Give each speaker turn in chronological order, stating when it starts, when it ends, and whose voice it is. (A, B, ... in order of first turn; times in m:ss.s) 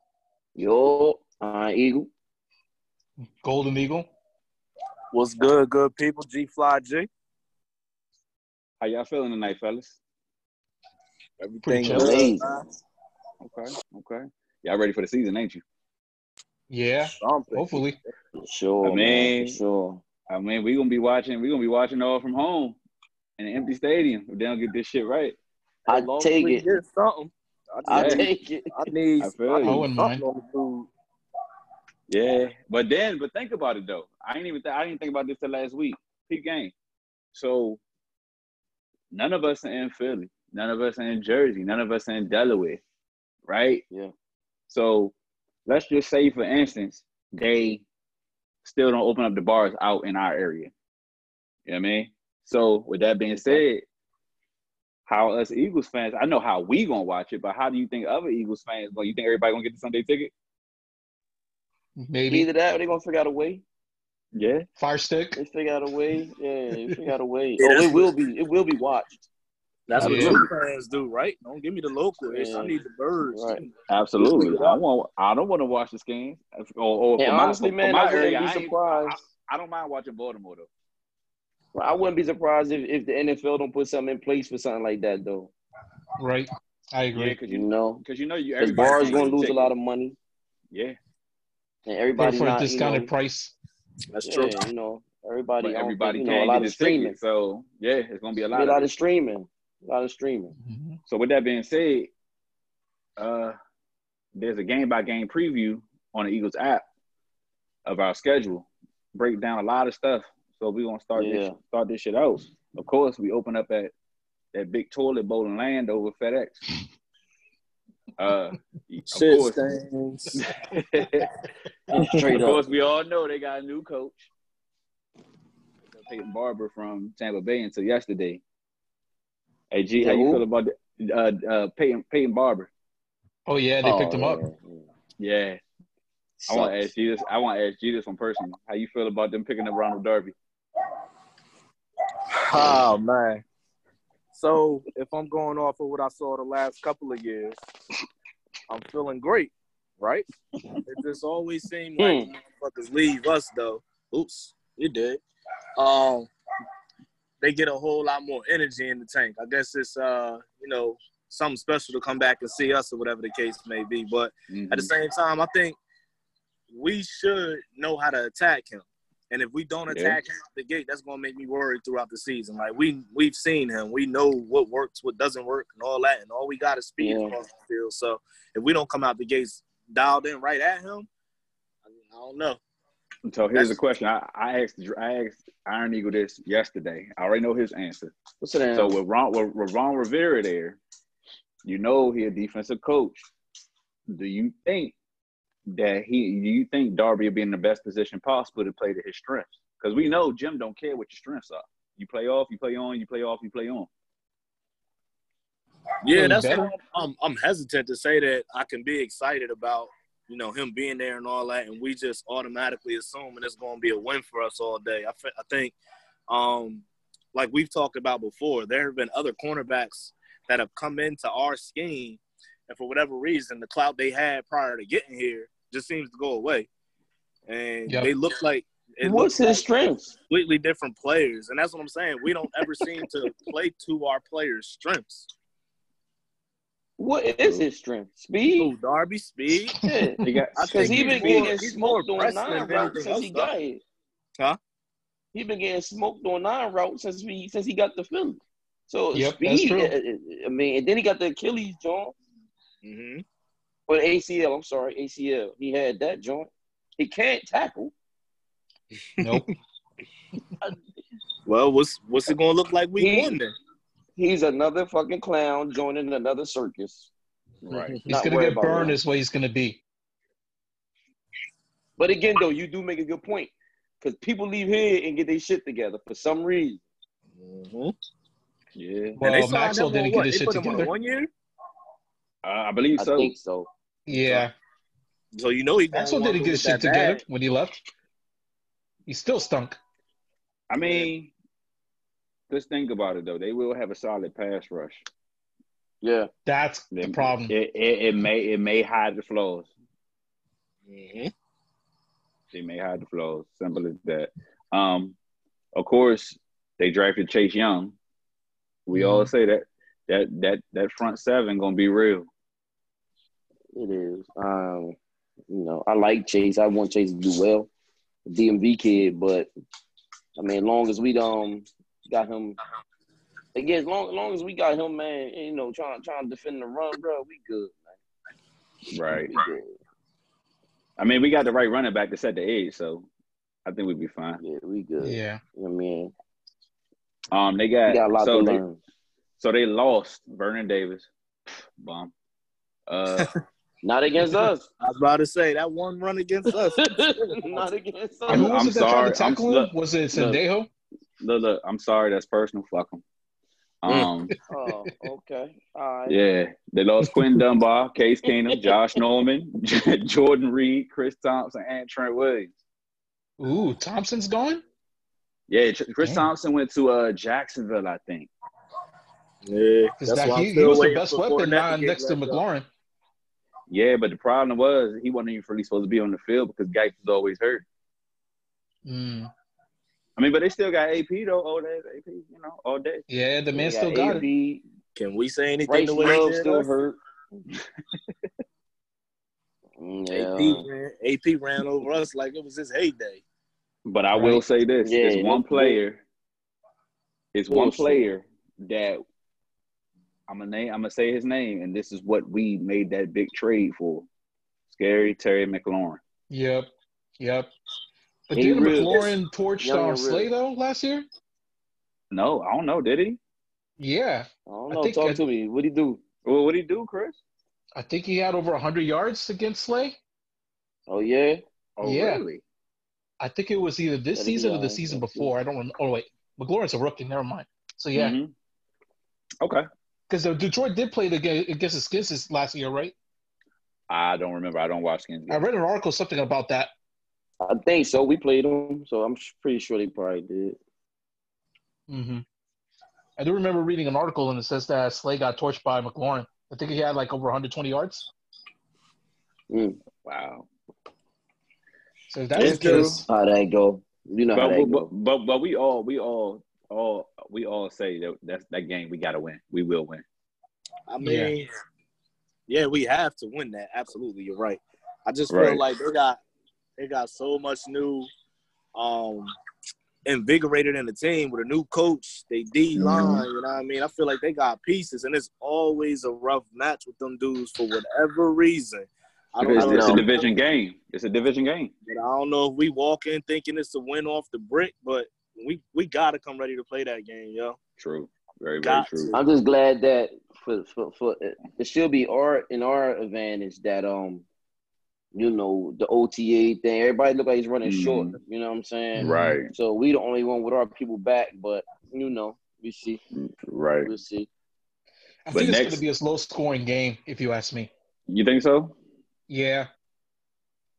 0:00.6-0:02.1 A
0:03.4-0:04.1 B
0:05.1-0:07.1 C
0:08.8-0:10.0 D
0:11.4-0:12.6 C
0:11.6-0:12.2 B
0:11.9-0:12.6 A
0:13.4-0:15.6 D
0:16.7-0:18.0 B
0:17.0-0:17.9 C
0:18.4-0:20.0 A
0:18.8-0:19.6 D
0:20.3-0:22.8 D
0:23.4-0:25.4 D
0:25.9-0:26.6 A
0:25.9-0:30.9 C
0:27.9-0:28.9 A
0:27.9-0:28.2 D
0:29.2-0:29.9 D
0:29.6-0:30.2 B
0:32.1-0:36.7 D
0:37.3-0:37.8 D
0:39.1-0:42.8 D
0:43.5-0:43.8 D
0:44.7-0:45.1 D
0:45.6-0:47.8 D
0:48.6-0:50.7 D
0:51.6-0:53.8 D
0:55.1-1:00.3 D
1:02.0-1:02.5 B
1:02.3-1:03.6 A
1:04.3-1:04.6 D
1:04.8-1:05.4 B
1:05.4-1:09.2 A
1:07.6-1:08.1 C
1:09.9-1:13.7 C
1:09.9-1:10.5 A
1:10.0-1:10.4 B
1:12.3-1:12.8 A
1:13.3-1:13.6 A
1:13.9-1:20.7 D
1:14.2-1:14.8 C
1:17.2-1:19.2 A
1:21.7-1:25.5 A
1:26.2-1:27.4 B
1:27.1-1:29.7 D
1:27.5-1:28.0 A
1:28.6-1:30.2 A
1:30.7-1:31.0 D
1:31.8-1:33.1 A
1:32.2-1:33.5 B
1:34.1-1:34.6 C
1:34.2-1:37.2 A
1:35.6-1:38.8 D
1:38.5-1:40.5 A
1:40.6-1:41.0 B
1:41.1-1:42.1 D
1:43.2-1:43.6 D
1:44.4-1:46.8 D
1:47.8-1:53.9 D
1:51.1-1:51.6 A
1:54.5-1:56.6 D
1:58.2-1:59.6 D
1:59.1-2:00.4 C
2:00.4-2:01.3 D
2:01.9-2:02.6 A
2:01.9-2:02.2 C
2:02.3-2:04.3 D
2:05.9-2:08.4 D
2:09.7-2:12.7 D
2:10.0-2:10.4 A
2:13.4-2:14.4 B
2:13.8-2:14.9 A
2:15.2-2:15.6 D
2:16.4-2:16.9 A
2:16.5-2:20.3 D
2:22.4-2:23.4 C
2:24.3-2:27.6 C
2:28.7-2:30.2 C
2:30.8-2:35.2 C
2:32.0-2:32.3 A
2:35.8-2:36.3 C
2:37.4-2:45.8 C
2:44.5-2:44.9 D
2:46.7-3:01.1 C
2:49.9-2:50.2 D
2:57.0-2:57.3 A
3:01.9-3:02.6 C
3:03.2-3:08.1 D
3:08.4-3:09.0 A
3:08.7-3:10.8 D
3:11.6-3:13.2 D
3:14.1-3:14.9 D
3:15.7-3:23.9 D
3:26.0-3:35.7 C
3:26.1-3:26.7 B
3:36.3-3:46.7 C
3:47.5-3:49.6 C
3:49.0-3:50.1 A
3:50.3-3:55.3 C
3:57.0-3:58.7 A
3:58.6-3:59.8 C
3:59.8-4:03.8 A
3:59.9-4:00.3 B
4:00.2-4:01.6 D
4:00.6-4:03.5 C
4:05.3-4:12.1 A
4:09.1-4:09.9 B
4:12.8-4:13.2 C
4:13.9-4:17.9 A
4:19.2-4:19.4 C
4:19.2-4:19.5 B
4:21.4-4:23.5 C
4:23.0-4:23.4 A
4:24.2-4:27.1 A
4:27.6-4:28.0 D
4:27.7-4:28.0 C
4:28.0-4:29.8 B
4:28.1-4:29.0 A
4:32.0-4:36.8 A
4:37.4-4:37.9 C
4:38.7-4:39.2 D
4:39.2-4:40.9 B
4:39.2-4:41.3 C
4:42.4-4:43.3 D
4:43.0-4:43.7 A
4:44.1-4:44.5 B
4:45.4-4:47.2 C
4:45.9-4:47.8 B
4:49.1-4:49.8 B
4:50.7-4:51.3 D
4:52.5-4:55.0 D
4:56.0-4:56.3 A
4:56.4-4:57.5 B
4:56.9-4:59.7 D
5:00.9-5:01.3 C
5:02.5-5:05.2 D
5:05.7-5:08.0 D
5:08.9-5:12.3 D
5:08.9-5:09.3 B
5:13.7-5:15.0 A
5:15.5-5:17.7 A
5:18.2-5:19.5 A
5:20.4-5:22.6 A
5:23.5-5:28.0 A
5:28.9-5:29.3 D
5:29.0-5:29.8 A
5:31.0-5:33.1 D
5:33.6-5:34.4 D
5:34.4-5:36.1 A
5:35.0-5:35.4 B
5:37.3-5:38.6 D
5:37.9-5:38.8 A
5:39.4-5:41.1 D
5:41.8-5:42.1 D
5:42.9-5:43.3 D
5:43.8-5:44.7 A
5:44.8-5:47.6 C
5:46.6-5:48.6 A
5:48.3-5:49.7 D
5:48.3-5:50.7 B
5:51.2-5:53.0 D
5:53.8-5:54.3 D
5:53.8-5:54.1 C
5:54.5-5:56.2 A
5:56.1-6:02.5 D
6:03.4-6:04.6 B
6:05.5-6:08.3 D
6:06.0-6:06.2 B
6:09.4-6:12.4 C
6:10.0-6:12.7 B
6:13.7-6:17.6 D
6:18.8-6:19.3 B
6:20.2-6:23.0 D
6:23.1-6:24.2 B
6:23.5-6:24.6 A
6:24.9-6:26.7 C
6:25.7-6:27.0 A
6:29.8-6:30.7 A
6:30.1-6:33.2 C
6:33.8-6:36.0 D
6:34.8-6:35.8 A
6:37.3-6:39.0 D
6:37.5-6:38.1 A
6:40.3-6:44.1 D
6:44.7-6:46.0 D
6:46.3-6:47.5 B
6:48.3-6:51.0 B
6:48.3-6:50.3 A
6:52.1-6:53.2 D
6:53.8-6:55.2 B
6:54.5-6:56.0 A
6:56.2-6:57.2 D
6:57.8-7:00.0 B
7:00.9-7:01.4 A
7:01.8-7:02.4 D
7:01.8-7:02.2 B
7:03.2-7:08.2 B
7:04.1-7:05.3 A
7:07.9-7:08.3 D
7:10.1-7:12.9 B
7:13.9-7:15.4 D
7:15.3-7:16.7 B
7:17.4-7:20.6 A
7:21.9-7:22.2 B
7:23.2-7:28.1 B
7:29.5-7:29.8 A
7:30.0-7:30.5 D
7:32.1-7:33.0 B
7:32.3-7:33.0 D
7:32.4-7:34.9 A
7:34.3-7:40.0 D
7:40.9-7:41.5 C
7:41.0-7:41.3 B
7:42.5-7:46.2 C
7:45.3-7:45.6 D
7:46.8-7:48.1 C
7:48.7-7:49.3 C
7:50.0-8:00.3 C
7:52.8-7:53.2 A
7:59.4-8:01.7 D
7:59.5-8:00.0 A
8:01.8-8:07.6 C
8:07.8-8:09.1 D
8:08.6-8:09.2 C
8:09.1-8:14.2 A
8:15.1-8:23.0 A
8:17.6-8:18.2 D
8:18.9-8:19.4 B
8:19.0-8:19.5 D
8:23.2-8:23.9 D
8:23.8-8:24.3 A
8:25.2-8:27.7 B
8:25.3-8:25.8 D
8:28.1-8:28.7 D
8:29.3-8:29.7 B